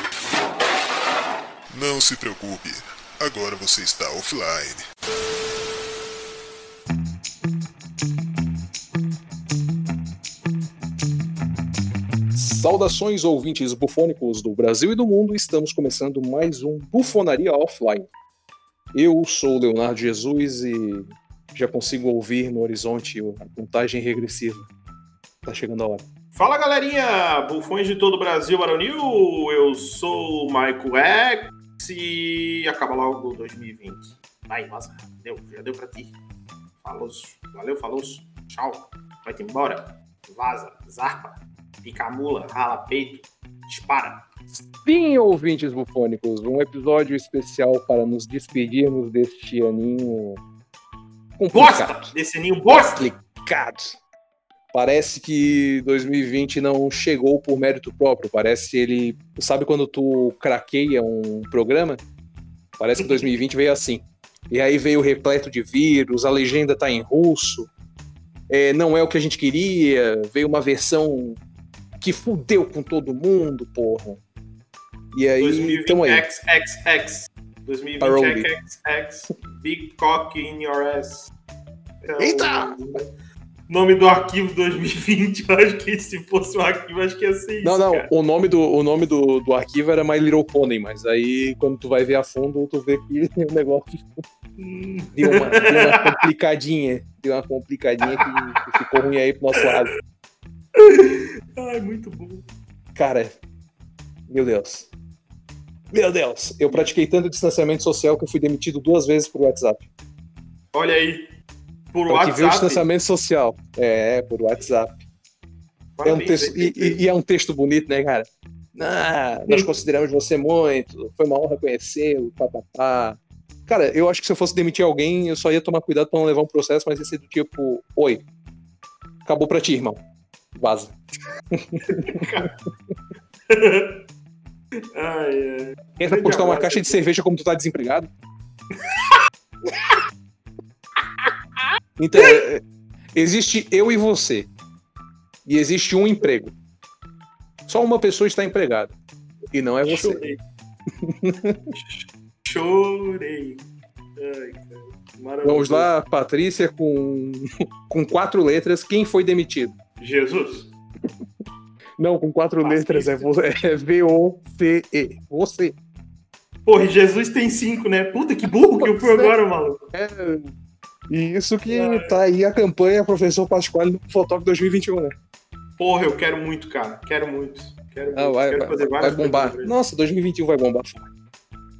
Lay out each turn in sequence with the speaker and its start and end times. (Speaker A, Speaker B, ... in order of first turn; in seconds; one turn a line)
Speaker A: 1.7-4.8
Speaker B: 12.3-18.1
Speaker B: 18.9-24.7
Speaker B: 25.4-26.1
Speaker C: 26.3-36.2
Speaker C: 36.8-44.2
Speaker B: 44.8-50.4
Speaker B: 51.4-52.1
Speaker C: 51.5-53.1
Speaker B: 52.7-54.0
Speaker B: 54.7-62.0
Speaker B: 62.8-67.7
Speaker C: 63.0-63.3
Speaker B: 68.5-71.4
Speaker B: 72.0-74.2
Speaker B: 75.1-76.2
Speaker C: 75.4-81.3
Speaker B: 78.0-78.5
Speaker C: 82.0-83.1
Speaker B: 82.2-82.8
Speaker C: 83.7-88.1
Speaker B: 87.6-94.2
Speaker C: 94.6-96.2
Speaker B: 95.1-99.9
Speaker C: 98.0-98.8
Speaker C: 100.8-102.5
Speaker B: 103.0-103.4
Speaker B: 104.3-104.9
Speaker B: 105.9-109.9
Speaker C: 110.7-111.3
Speaker C: 111.9-112.9
Speaker B: 112.1-115.0
Speaker C: 116.0-117.0
Speaker B: 116.0-128.2
Speaker B: 129.2-130.0
Speaker B: 130.6-130.9
Speaker B: 131.5-132.3
Speaker C: 131.8-132.6
Speaker C: 133.5-134.0
Speaker C: 134.9-137.0
Speaker B: 136.0-138.1
Speaker C: 138.8-139.2
Speaker C: 141.2-141.7
Speaker B: 142.0-142.6
Speaker B: 143.2-144.5
Speaker B: 145.5-146.6
Speaker B: 147.7-148.9
Speaker B: 149.5-150.2
Speaker C: 149.8-150.4
Speaker B: 151.0-151.6
Speaker C: 151.7-153.7
Speaker C: 154.2-155.9
Speaker B: 155.4-159.8
Speaker C: 160.0-160.7
Speaker B: 162.0-165.8
Speaker C: 162.6-163.3
Speaker C: 166.7-169.8
Speaker B: 168.4-169.3
Speaker B: 169.9-170.5
Speaker B: 171.1-175.1
Speaker C: 171.7-172.2
Speaker C: 175.8-179.8
Speaker B: 178.1-181.1